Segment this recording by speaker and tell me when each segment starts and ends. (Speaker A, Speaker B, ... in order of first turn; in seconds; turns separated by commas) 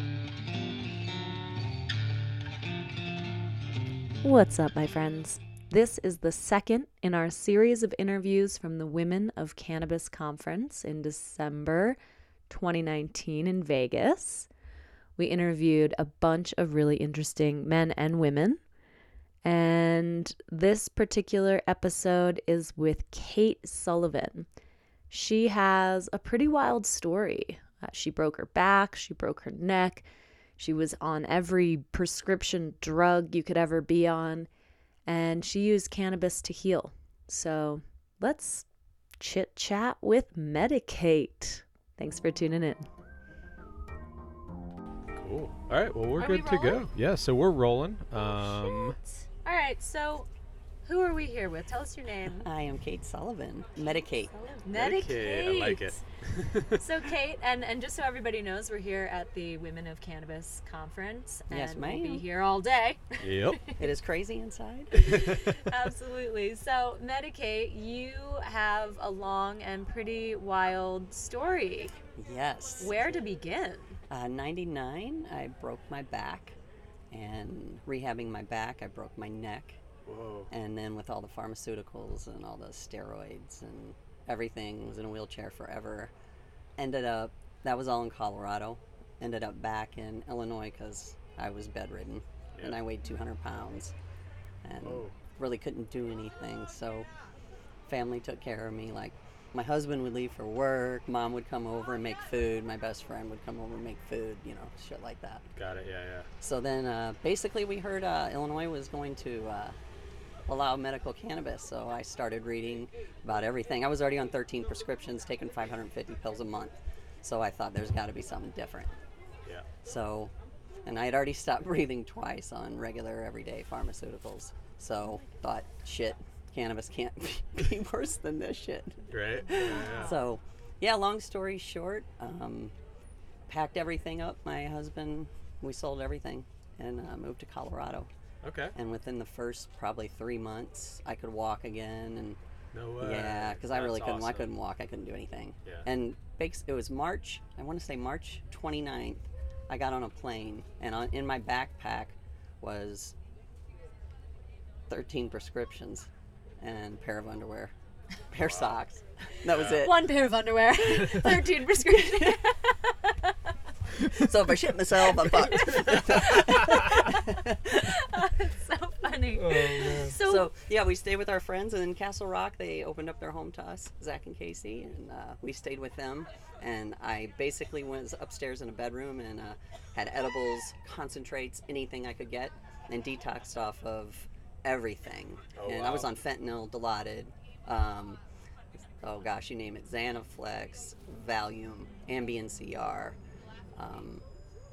Speaker A: 4.2-12.0, Speaker A: 12.5-14.5, Speaker A: 15.2-18.6, Speaker A: 19.4-24.5, Speaker A: 25.1-30.0, Speaker A: 30.6-34.5, Speaker A: 35.1-38.6, Speaker A: 39.2-42.8, Speaker B: 45.1-49.0, Speaker C: 46.2-46.9, Speaker C: 49.4-50.3, Speaker C: 50.8-52.4, Speaker D: 52.2-54.5, Speaker C: 54.5-56.0, Speaker B: 54.7-57.1, Speaker C: 56.8-63.7, Speaker D: 61.5-62.3, Speaker B: 63.2-63.7, Speaker D: 63.8-65.4, Speaker C: 65.1-72.0, Speaker D: 72.2-73.2, Speaker C: 72.8-74.0, Speaker D: 74.1-76.5, Speaker D: 77.1-79.8, Speaker B: 80.0-80.5, Speaker D: 80.5-86.1, Speaker D: 86.8-93.9, Speaker B: 92.5-92.8, Speaker D: 94.6-97.1, Speaker B: 94.8-95.2, Speaker D: 97.9-105.5, Speaker B: 105.5-106.3, Speaker D: 106.4-109.8, Speaker D: 110.5-119.0, Speaker B: 119.4-119.7, Speaker D: 119.8-120.3, Speaker D: 120.8-132.7, Speaker B: 129.1-130.1, Speaker D: 133.5-138.1, Speaker B: 138.4-138.7, Speaker D: 138.7-142.4, Speaker B: 142.7-144.5, Speaker D: 143.0-153.1, Speaker D: 154.9-156.1, Speaker D: 156.6-157.7, Speaker D: 158.3-160.2, Speaker B: 158.4-158.8, Speaker B: 159.5-159.9, Speaker C: 159.8-163.1, Speaker B: 161.0-161.5, Speaker D: 162.1-162.4, Speaker D: 164.1-167.9, Speaker C: 167.9-170.4, Speaker B: 169.3-170.2, Speaker D: 170.2-188.2, Speaker B: 185.5-186.1, Speaker D: 189.0-193.2, Speaker D: 193.8-194.2